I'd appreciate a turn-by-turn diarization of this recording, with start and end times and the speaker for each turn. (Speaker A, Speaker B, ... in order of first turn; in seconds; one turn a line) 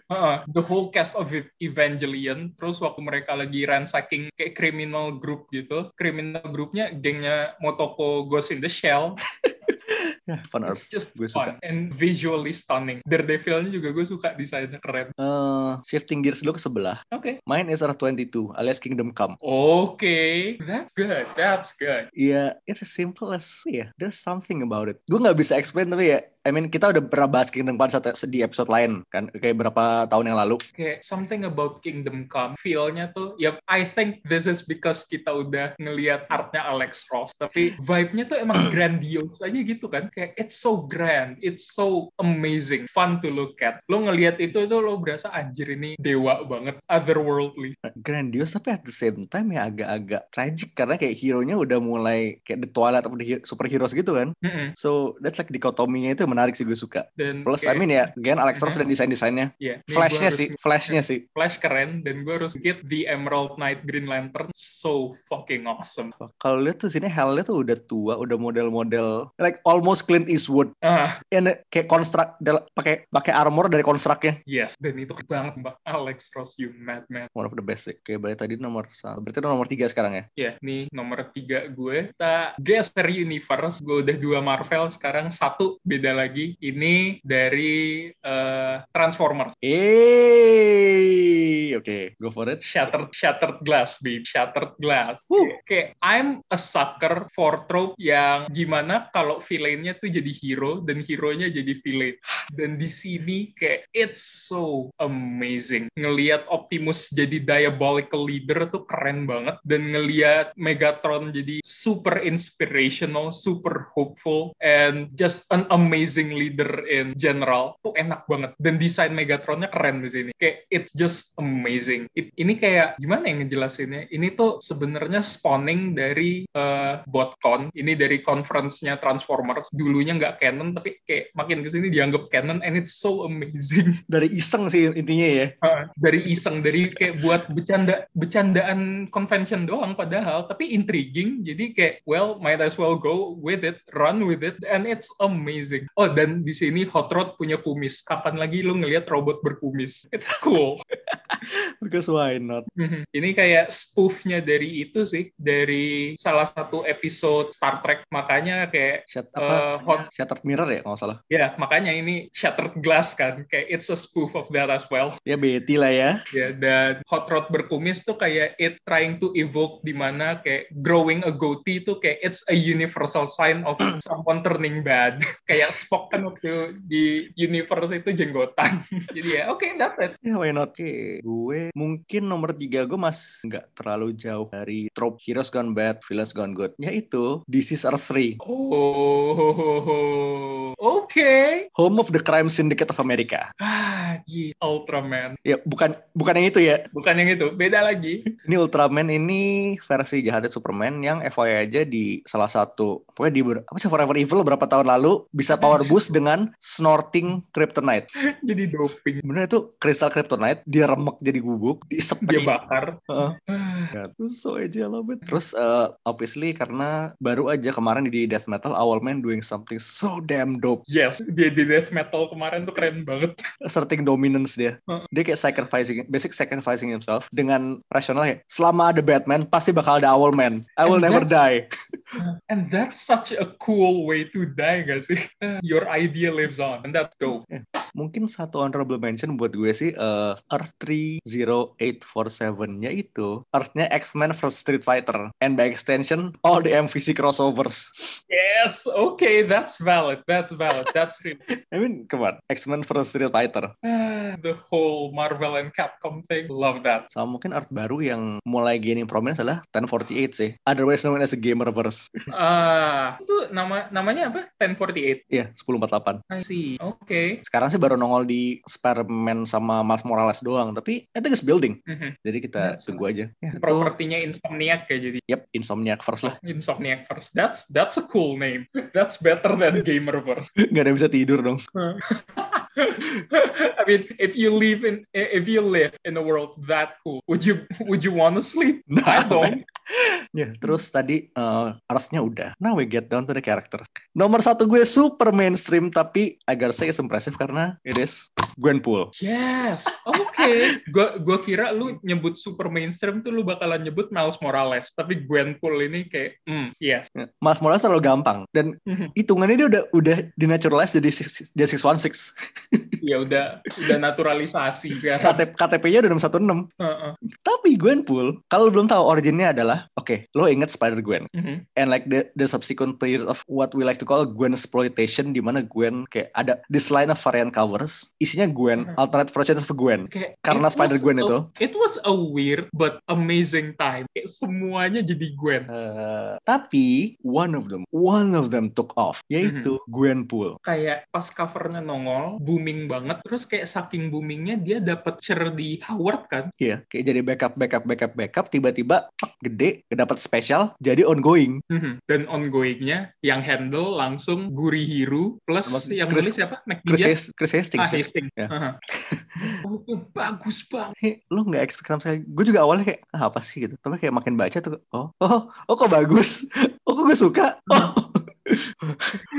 Speaker A: 0.1-9.2
Speaker B: 9.4-11.6
Speaker A: 10.7-15.1
Speaker B: 15.2-19.4
Speaker A: 17.1-17.4
Speaker A: 19.4-22.1
Speaker B: 22.2-30.6
Speaker A: 30.8-47.8
Speaker B: 47.9-61.2
Speaker A: 54.4-54.8
Speaker A: 57.2-57.9
Speaker A: 58.5-58.8
Speaker A: 59.6-66.2
Speaker B: 66.2-70.7
Speaker A: 70.8-71.2
Speaker B: 71.3-74.4
Speaker A: 74.5-77.3
Speaker B: 77.3-80.3
Speaker A: 80.4-89.6
Speaker B: 89.6-92.6
Speaker A: 92.6-134.0
Speaker B: 134.1-135.5
Speaker A: 135.6-150.8
Speaker B: 151.1-152.7
Speaker A: 152.8-160.1
Speaker B: 159.1-161.2
Speaker A: 161.3-165.2
Speaker B: 165.3-166.2
Speaker A: 166.3-180.2
Speaker B: 180.2-188.4
Speaker A: 188.4-191.7
Speaker B: 191.8-193.5
Speaker A: 193.6-195.4
Speaker B: 195.4-196.9
Speaker A: 196.9-198.3
Speaker B: 198.4-208.1
Speaker A: 205.5-206.0
Speaker A: 208.4-209.2
Speaker B: 209.2-212.6
Speaker A: 212.2-213.9
Speaker B: 213.1-213.4
Speaker B: 213.9-220.8
Speaker A: 220.9-223.4
Speaker B: 223.6-232.2
Speaker A: 230.8-231.4
Speaker A: 232.2-237.4
Speaker B: 237.5-247.9
Speaker A: 248.3-251.4
Speaker B: 251.7-253.7
Speaker A: 253.8-257.1
Speaker B: 257.1-262.1
Speaker A: 262.3-265.2
Speaker B: 265.3-266.2
Speaker A: 266.3-267.4
Speaker B: 267.4-273.9
Speaker A: 271.9-275.2
Speaker B: 275.3-276.4
Speaker A: 276.2-280.5
Speaker B: 280.6-281.6
Speaker A: 281.8-289.6
Speaker B: 288.9-289.6
Speaker B: 290.3-299.1
Speaker A: 299.2-307.1
Speaker B: 300.2-300.6
Speaker B: 307.1-313.0
Speaker A: 308.9-309.1
Speaker A: 313.0-315.4
Speaker B: 315.2-316.7
Speaker A: 316.8-317.2
Speaker B: 317.4-331.5
Speaker A: 321.3-321.6
Speaker A: 330.1-335.7
Speaker B: 335.7-340.6
Speaker A: 339.4-339.7
Speaker A: 340.6-346.5
Speaker B: 346.6-351.6
Speaker A: 351.7-357.2
Speaker B: 355.7-359.6
Speaker A: 357.8-358.8
Speaker A: 359.6-360.9
Speaker B: 361.0-369.2